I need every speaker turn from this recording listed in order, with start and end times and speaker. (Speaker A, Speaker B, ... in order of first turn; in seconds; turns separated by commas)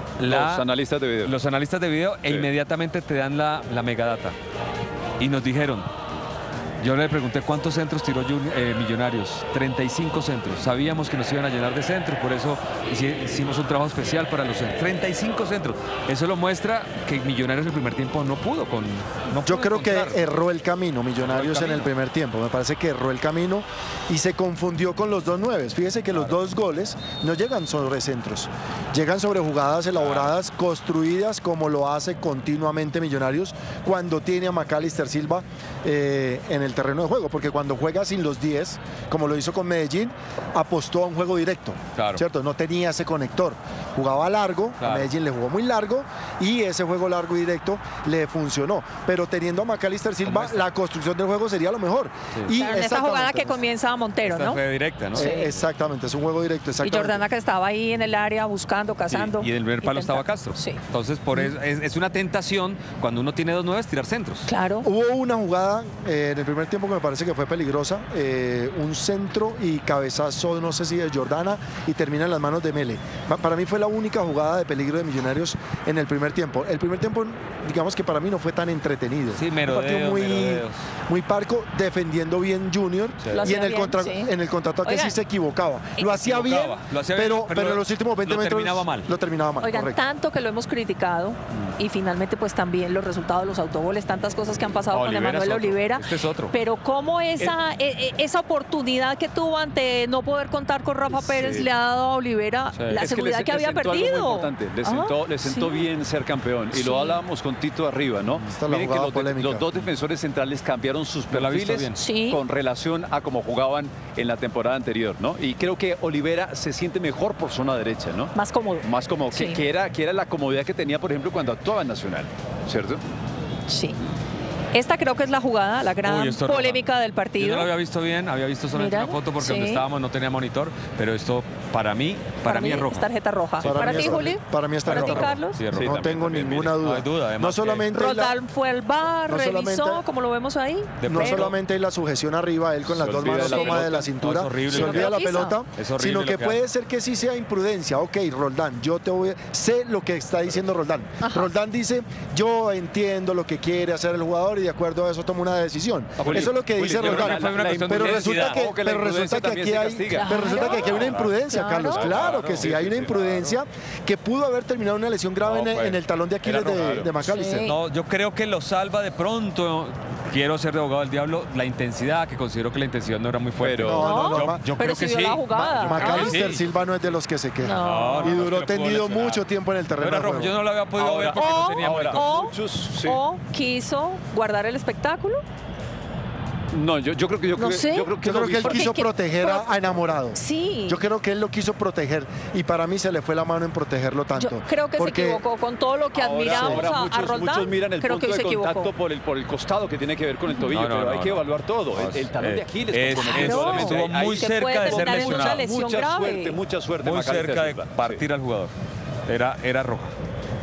Speaker A: 0.2-0.7, Speaker B: 0.3-1.3, Speaker A: 1.2-4.4, Speaker A: 5.2-5.9, Speaker A: 6.8-20.3, Speaker C: 19.4-53.6, Speaker A: 21.2-21.9, Speaker A: 30.0-30.3, Speaker A: 42.0-42.2, Speaker A: 44.8-45.1, Speaker A: 50.2-50.7, Speaker D: 52.5-54.6, Speaker A: 54.2-55.4, Speaker D: 55.1-55.5, Speaker C: 55.1-57.2, Speaker D: 56.8-60.8, Speaker A: 59.1-64.5, Speaker D: 64.5-64.9, Speaker C: 64.8-90.0, Speaker A: 79.3-80.8, Speaker A: 83.2-83.5, Speaker D: 83.3-84.3, Speaker D: 84.8-85.2, Speaker A: 86.0-89.1, Speaker D: 89.6-105.9, Speaker A: 94.9-96.5, Speaker B: 101.1-101.7, Speaker A: 102.8-103.0, Speaker B: 102.9-123.0, Speaker D: 106.7-107.2, Speaker C: 108.5-109.7, Speaker A: 111.3-112.0, Speaker D: 111.9-112.4, Speaker D: 118.3-119.6, Speaker D: 123.7-124.0, Speaker D: 124.7-127.7, Speaker A: 126.0-133.1, Speaker D: 128.7-129.8, Speaker D: 132.4-135.6, Speaker A: 133.6-134.2, Speaker C: 133.6-138.4, Speaker A: 134.9-136.1, Speaker B: 135.7-136.7, Speaker A: 136.7-137.9, Speaker D: 137.9-141.5, Speaker C: 139.3-140.0, Speaker A: 141.0-141.6, Speaker C: 141.1-167.7, Speaker B: 142.9-144.1, Speaker D: 143.4-143.8, Speaker A: 144.1-145.2, Speaker D: 144.7-145.6, Speaker A: 145.8-146.6, Speaker D: 151.2-151.5, Speaker A: 156.2-158.6, Speaker B: 156.2-161.3, Speaker D: 160.1-162.1, Speaker B: 161.9-163.6, Speaker A: 162.1-162.7, Speaker A: 165.4-176.7, Speaker B: 166.5-167.2, Speaker D: 167.3-167.8, Speaker B: 173.6-174.1, Speaker C: 173.8-174.7, Speaker D: 174.0-176.4, Speaker C: 175.5-180.6, Speaker D: 177.6-178.4, Speaker A: 177.8-179.4, Speaker A: 180.0-182.2, Speaker B: 181.0-183.2, Speaker D: 181.3-185.4, Speaker B: 186.7-188.9, Speaker D: 187.6-189.8, Speaker C: 188.2-195.4, Speaker D: 190.3-191.0, Speaker D: 194.3-198.9, Speaker B: 196.2-208.2, Speaker C: 196.5-196.9, Speaker D: 200.5-200.8, Speaker A: 200.7-205.6, Speaker D: 203.1-206.6, Speaker A: 207.0-208.7, Speaker A: 209.3-210.1